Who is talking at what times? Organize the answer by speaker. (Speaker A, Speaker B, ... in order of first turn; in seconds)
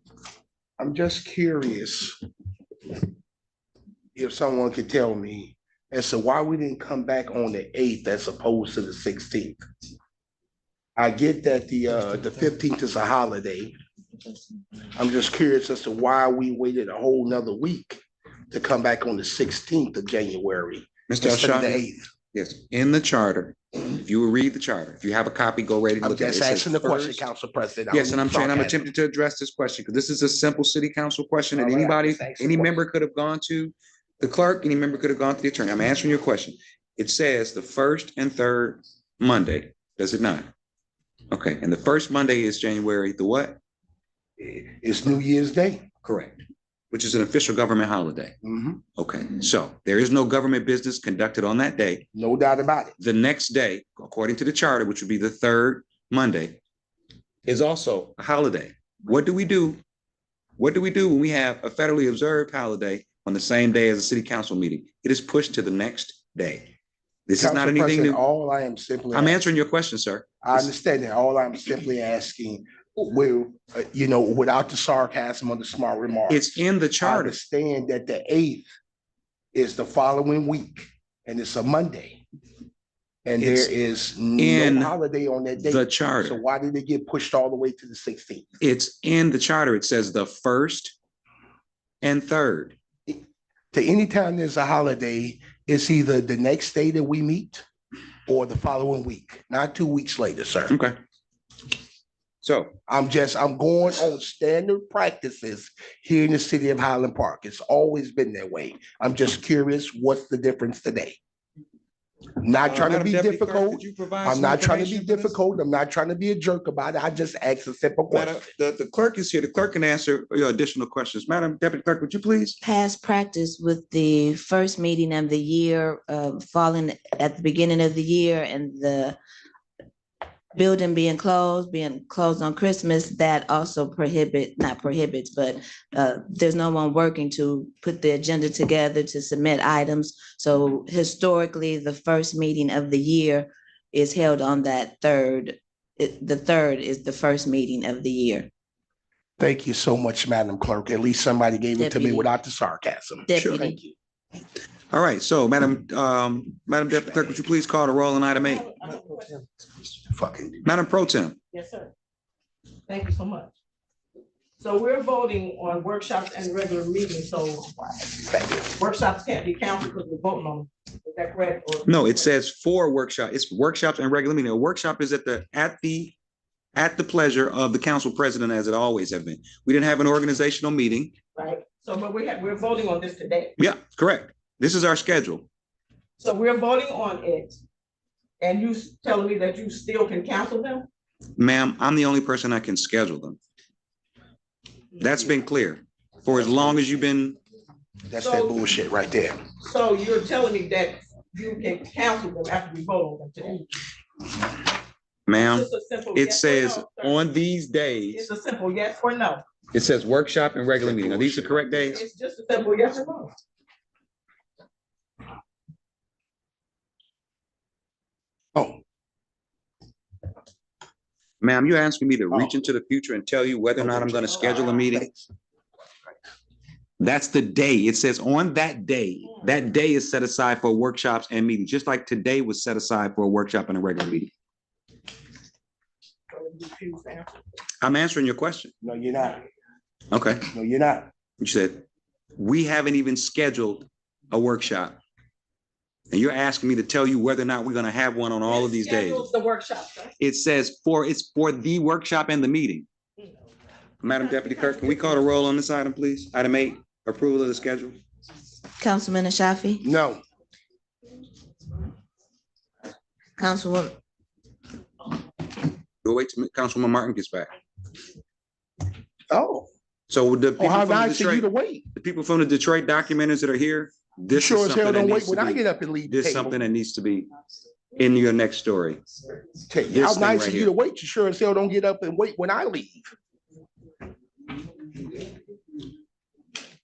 Speaker A: 0.8-2.2, 4.2-9.6, 10.9-13.7, 14.9-22.0, 26.0-28.8, 31.6-32.8, 44.4-45.9, 48.4-48.8, 52.1-53.0, 67.4-69.4, 70.4-78.7, 79.5-82.2, 83.2-88.5, 93.7-97.6, 98.3-100.8, 102.9-111.2, 112.4-118.5, 149.4-153.9, 156.9-157.4, 160.0-160.7, 168.2-168.8, 196.3-197.0, 198.1-199.4, 210.8-211.8, 218.5-218.8, 223.8-225.3, 238.8-239.4, 240.5-241.1, 259.8-260.2, 269.3-269.7, 270.6-271.9, 274.3-276.6, 279.7-283.1
Speaker B: 21.1-21.8, 22.3-27.2, 27.9-40.5, 41.3-43.6, 46.0-48.3, 49.0-52.0, 53.0-56.6, 57.5-59.8, 60.6-66.7, 67.3-68.2, 69.1-70.7, 76.3-77.4, 83.4-83.7, 84.4-84.9, 85.6-86.4, 88.6-91.0, 92.0-92.8, 100.7-101.0, 102.4-102.7, 112.7-115.4, 118.1-122.6, 153.3-153.7, 154.9-158.7, 160.6-161.3, 171.8-176.2, 176.8-181.1, 183.6-185.4, 191.4-193.4, 195.0-197.4, 205.3-208.2, 209.7-212.0, 221.4-225.1, 227.0-234.3, 237.8-238.7, 240.1-240.4, 241.4-241.8, 242.4-245.0, 246.1-249.3, 250.2-252.8, 254.0-258.0, 266.0-267.5, 270.1-277.3, 277.9-279.0, 279.9-280.7
Speaker C: 122.6-129.2, 130.5-148.5, 151.8-152.3, 153.3-153.8, 258.8-259.9, 263.4-264.0
Speaker D: 158.3-159.4, 161.5-161.9, 162.9-163.5, 164.6-168.1, 168.7-172.2, 181.3-183.5, 186.2-187.6, 188.4-190.9, 198.2-198.6, 199.6-203.7, 205.3-207.2, 208.1-209.4, 211.9-213.3, 236.3-237.4, 248.5-250.1, 254.1-255.3